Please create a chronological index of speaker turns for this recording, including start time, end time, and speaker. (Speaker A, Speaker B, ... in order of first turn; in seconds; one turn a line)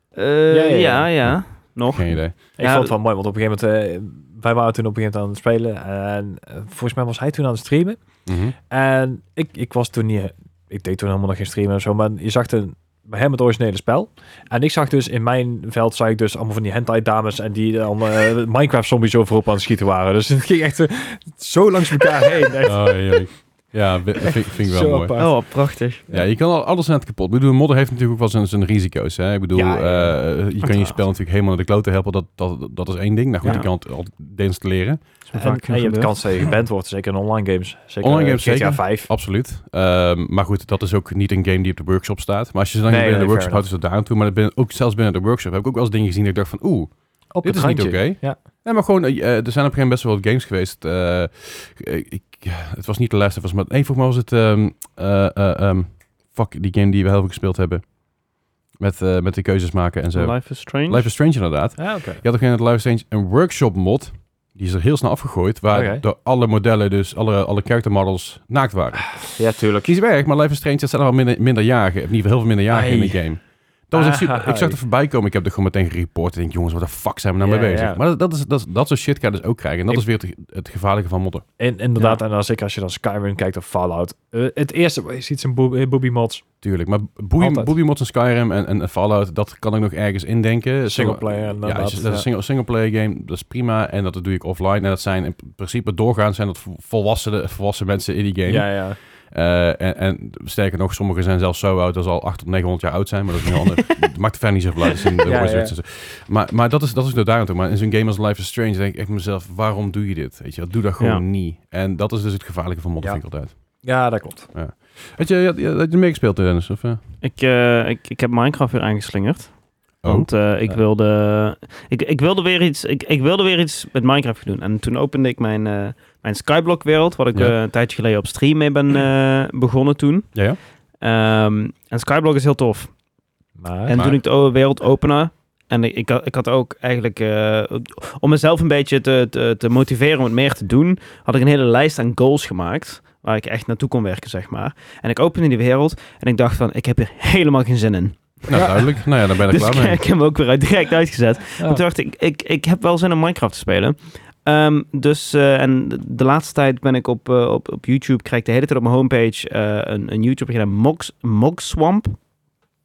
Speaker A: 0.1-2.9
Speaker B: 0.5-1.1
Speaker C: 1.2-2.4
Speaker B: 2.6-8.0
Speaker C: 8.2-8.5
Speaker B: 8.7-23.3
Speaker C: 22.6-25.2
Speaker B: 24.1-26.2
Speaker A: 25.2-26.0
Speaker C: 26.1-35.0
Speaker B: 29.5-30.2
Speaker A: 30.6-31.0
Speaker A: 35.3-36.1
Speaker B: 35.3-39.1
Speaker C: 38.0-57.9
Speaker B: 42.9-43.6
Speaker B: 47.3-48.4
Speaker C: 58.8-81.4
Speaker A: 60.1-61.1
Speaker B: 61.8-62.2
Speaker B: 65.7-66.0
Speaker B: 69.1-69.9
Speaker B: 72.7-74.8
Speaker B: 77.4-78.0
Speaker B: 81.6-86.4
Speaker C: 86.6-113.8
Speaker B: 87.4-87.7
Speaker B: 90.8-92.2
Speaker B: 98.5-99.0
Speaker B: 105.2-105.7
Speaker B: 113.8-114.5
Speaker C: 114.5-117.0
Speaker A: 117.2-130.3
Speaker C: 120.0-120.3
Speaker A: 131.0-132.9
Speaker B: 133.6-134.0
Speaker A: 133.8-162.2
Speaker C: 133.9-134.2
Speaker C: 148.5-150.0
Speaker B: 148.5-148.9